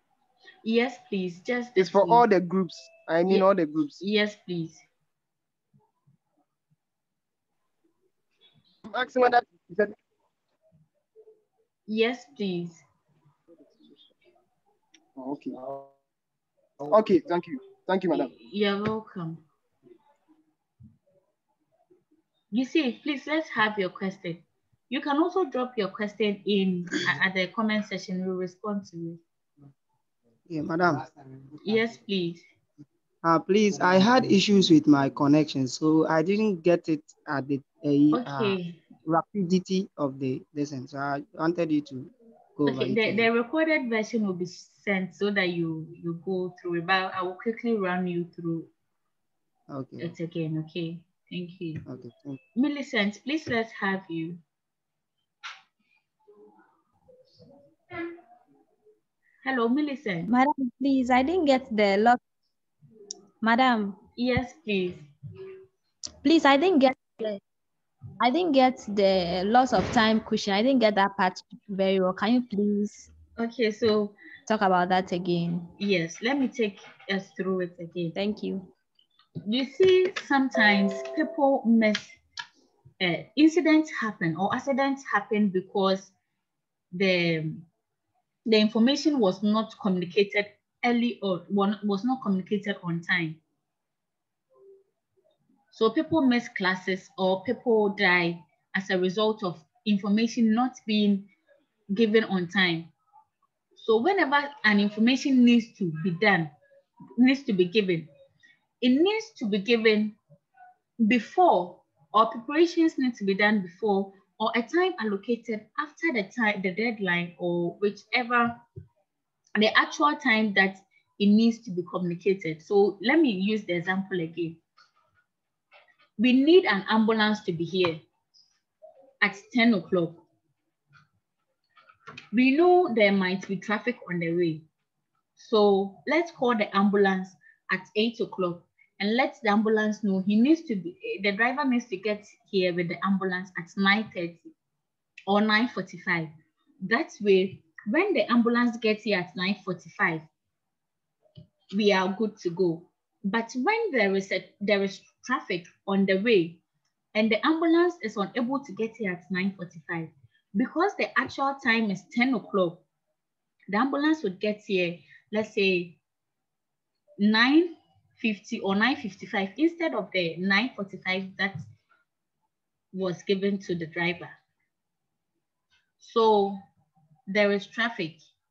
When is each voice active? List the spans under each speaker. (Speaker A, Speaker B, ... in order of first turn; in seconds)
Speaker A: 0.6-2.2, 4.0-4.8, 11.9-12.8, 18.1-19.4, 22.5-29.2, 31.6-32.4, 38.1-38.8, 42.7-48.7, 50.0-51.8, 52.5-54.4, 59.4-60.3, 64.2-65.0, 73.4-74.1, 75.8-78.1, 79.5-82.2, 83.0-86.1, 86.9-87.7, 88.5-93.4, 95.7-101.3, 101.9-102.9, 103.8-106.5, 107.2-108.1, 108.8-110.2, 111.0-118.6, 119.6-124.6, 126.2-128.0, 129.2-130.2, 132.3-134.6, 135.3-144.5, 145.3-146.3, 146.8-150.2, 151.7-156.6, 157.1-162.8, 163.7-166.0, 167.2-171.6, 172.9-174.3, 176.0-176.6, 177.3-178.2
Speaker B: 1.8-3.9, 8.9-9.9, 15.2-15.5, 16.9-18.2, 30.5-31.1, 33.2-43.3, 49.7-50.1, 51.9-52.4
Speaker C: 60.2-62.2, 63.4-64.0, 66.2-67.4, 68.2-73.1, 74.5-75.7, 78.1-78.7